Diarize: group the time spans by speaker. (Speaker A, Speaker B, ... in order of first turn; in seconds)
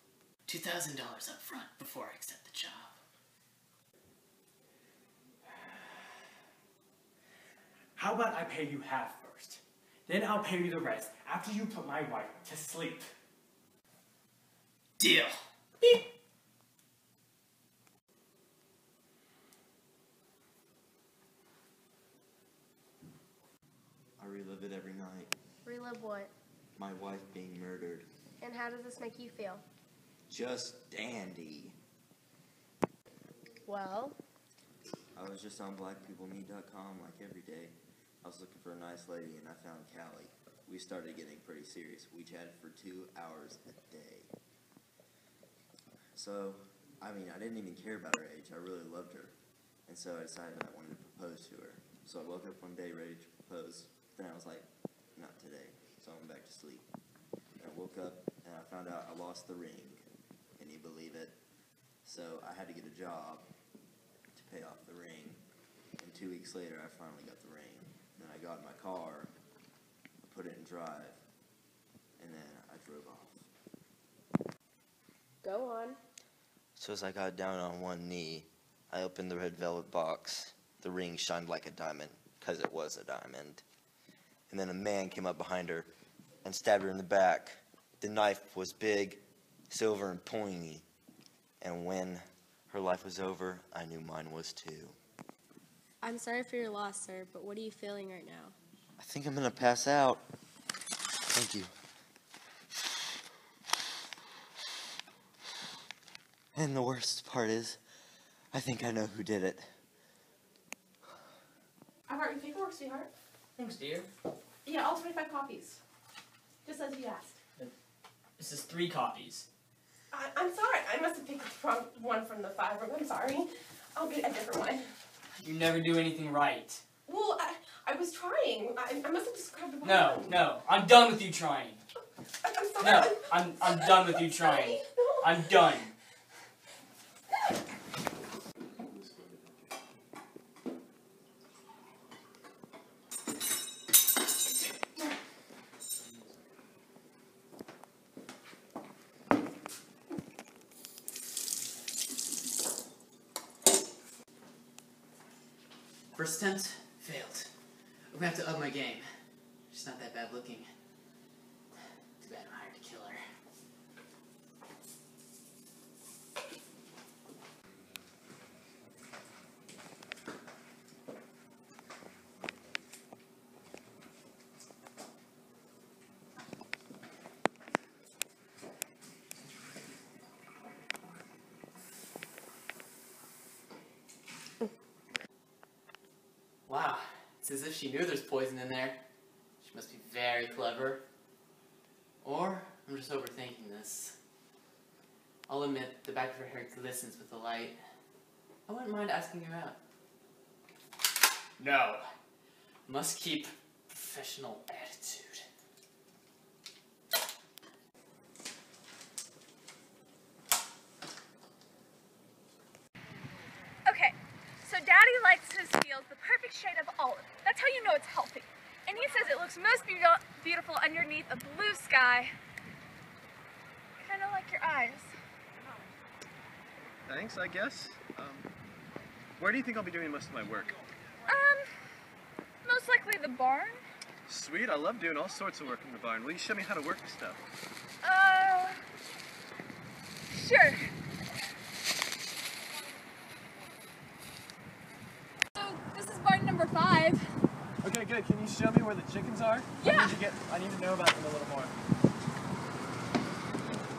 Speaker A: 0.5-3.0, 15.0-15.4, 156.1-157.5, 158.1-159.1, 159.7-160.7, 162.2-163.2, 186.7-189.0, 189.6-191.0, 192.2-194.1, 195.5-197.8, 198.7-199.8, 201.6-202.0, 202.9-205.4
Speaker B: 8.0-13.1
Speaker C: 24.2-25.3, 26.8-28.1, 30.3-31.8, 35.1-44.3, 46.1-49.4, 49.9-56.9, 57.6-60.0, 60.6-61.4, 62.0-63.5, 64.3-65.4, 66.0-69.3, 70.3-71.2, 72.2-73.5, 76.8-83.6, 84.5-85.9, 86.4-90.8, 91.6-95.0, 99.0-100.2, 101.3-101.7, 106.5-107.8, 108.5-109.7
Speaker D: 25.6-26.3, 28.4-29.6, 33.7-34.2, 75.4-76.0, 96.0-98.5
Speaker E: 112.1-113.1, 114.7-115.8, 116.7-117.3, 120.1-124.9, 127.1-130.3, 132.4-135.6
Speaker F: 113.6-114.1, 118.4-119.5, 125.4-126.8, 129.8-131.8, 132.8-135.9
Speaker G: 138.7-139.6, 146.0-146.3, 227.1-228.5, 229.4-230.7, 234.3-237.4, 247.8-251.7
Speaker H: 213.9-222.3, 224.0-225.1, 231.3-231.7, 232.7-233.8, 238.0-238.6, 240.3-240.8, 245.6-247.3, 249.8-250.2